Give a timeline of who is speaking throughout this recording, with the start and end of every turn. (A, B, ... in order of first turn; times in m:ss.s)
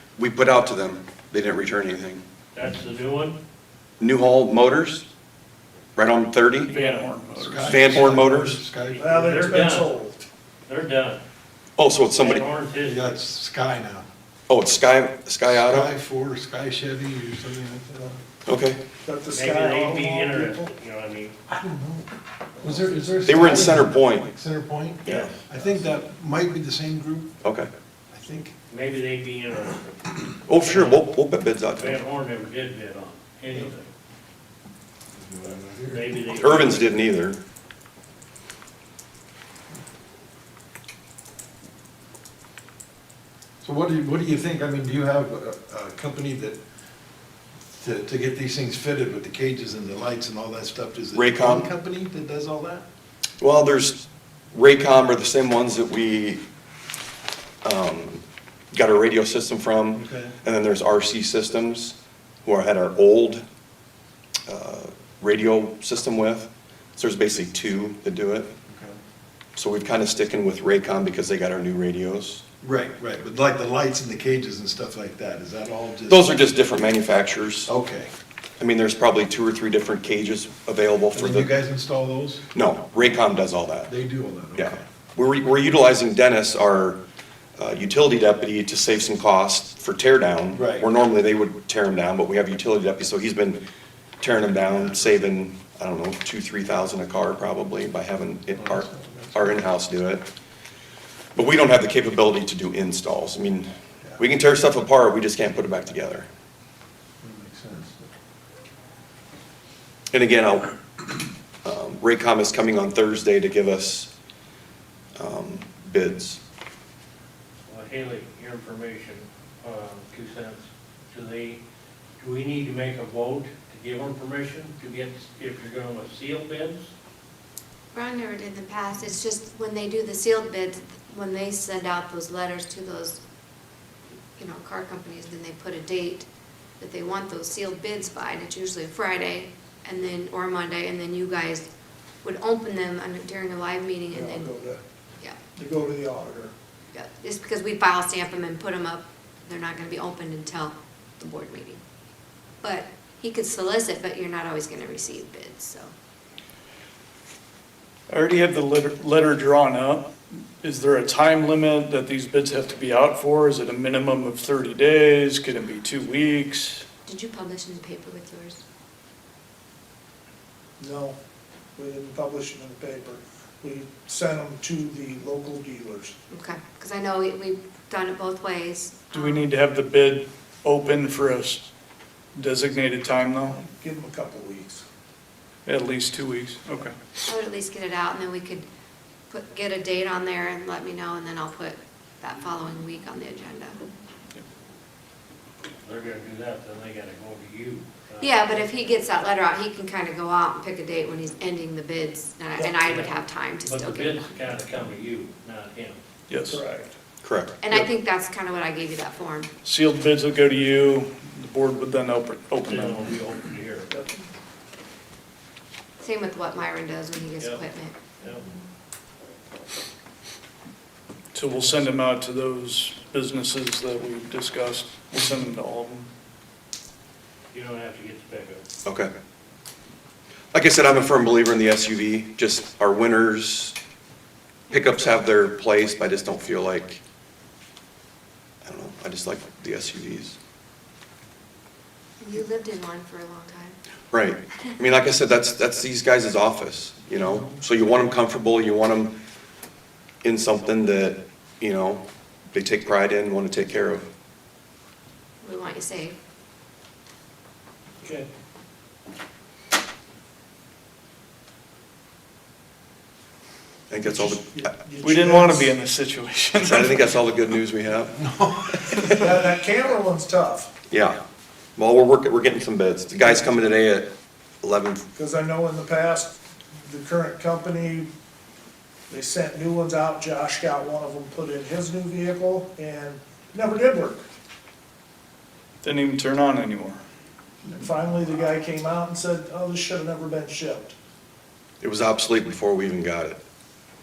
0:00.2-0:02.2 A
0:02.5-0:03.4 B
0:04.0-0:05.0 A
0:06.0-0:06.7 A
0:06.7-0:07.1 B
0:06.7-0:08.2 C
0:07.3-0:09.7 D
0:07.7-0:08.6 A
0:08.9-0:09.9 B
0:09.0-0:10.2 E
0:10.7-0:11.2 B
0:11.8-0:12.4 A
0:12.1-0:13.1 B
0:12.8-0:14.1 D
0:14.5-0:15.9 A
0:15.5-0:18.2 D
0:18.5-0:18.8 A
0:19.0-0:20.7 E
0:19.3-0:21.3 B
0:21.5-0:27.3 D
0:22.7-0:23.1 E
0:23.2-0:24.2 A
0:25.0-0:25.4 B
0:27.4-0:27.7 A
0:28.1-0:28.5 D
0:28.7-0:31.0 B
0:30.5-0:32.0 A
0:31.7-0:33.9 B
0:35.2-0:36.8 D
0:35.4-0:37.0 B
0:36.3-0:37.4 A
0:43.6-0:46.6 D
0:47.7-0:52.9 D
0:51.1-0:51.7 A
0:53.4-0:56.4 A
0:57.6-0:58.2 A
0:58.7-1:03.4 A
0:59.9-1:00.3 D
1:04.5-1:08.5 A
1:08.7-1:09.0 D
1:09.6-1:12.4 A
1:12.6-1:16.5 D
1:16.1-1:17.7 A
1:17.7-1:18.1 D
1:18.6-1:21.5 A
1:21.1-1:22.4 D
1:22.5-1:23.9 A
1:23.9-1:24.8 D
1:24.6-1:27.0 A
1:27.6-1:33.6 A
1:30.5-1:30.9 D
1:34.2-1:40.2 A
1:34.6-1:35.0 D
1:38.6-1:39.6 D
1:41.3-1:46.3 A
1:47.2-1:48.1 D
1:50.1-1:50.8 A
1:51.6-1:54.1 A
1:55.2-1:56.4 A
1:57.7-2:01.6 B
2:02.2-2:06.9 B
2:07.9-2:13.2 F
2:14.4-2:16.2 F
2:16.8-2:21.7 F
2:22.2-2:24.6 F
2:24.1-2:24.8 E
2:25.5-2:26.5 E
2:26.9-2:31.8 F
2:32.6-2:35.9 F
2:38.1-2:46.8 C
2:47.1-2:48.6 F
2:50.8-2:51.2 E
2:51.8-2:56.2 E
2:56.3-2:59.5 F
2:59.1-3:01.7 C
3:02.4-3:03.6 C
3:03.5-3:04.8 E
3:05.7-3:06.9 C
3:07.2-3:08.7 F
3:09.3-3:13.8 F
3:15.8-3:19.0 B
3:18.2-3:24.4 F
3:22.7-3:26.0 B
3:26.3-3:26.6 C
3:26.5-3:27.0 E
3:27.2-3:27.6 A
3:27.6-3:29.5 F
3:29.6-3:33.1 C
3:32.7-3:34.0 B
3:36.0-3:38.0 F
3:37.4-3:37.6 B
3:38.2-3:38.4 B
3:41.3-3:46.1 C
3:47.5-3:48.6 B
3:48.8-3:49.1 A
3:50.5-3:53.8 A
3:54.7-3:55.1 F
3:54.7-3:57.0 A
3:58.6-4:00.4 A
4:02.2-4:03.8 F
4:04.1-4:09.1 A
4:10.2-4:14.0 A
4:15.4-4:16.2 F
4:23.9-4:24.8 A
4:24.0-4:25.7 E
4:25.0-4:27.1 C
4:26.6-4:28.2 A
4:28.2-4:29.0 D
4:29.2-4:30.7 E
4:30.9-4:31.2 A
4:31.8-4:35.0 A
4:35.2-4:38.1 E
4:39.1-4:44.2 E
4:45.8-4:47.0 C
4:47.7-4:51.0 E
4:51.8-4:53.4 A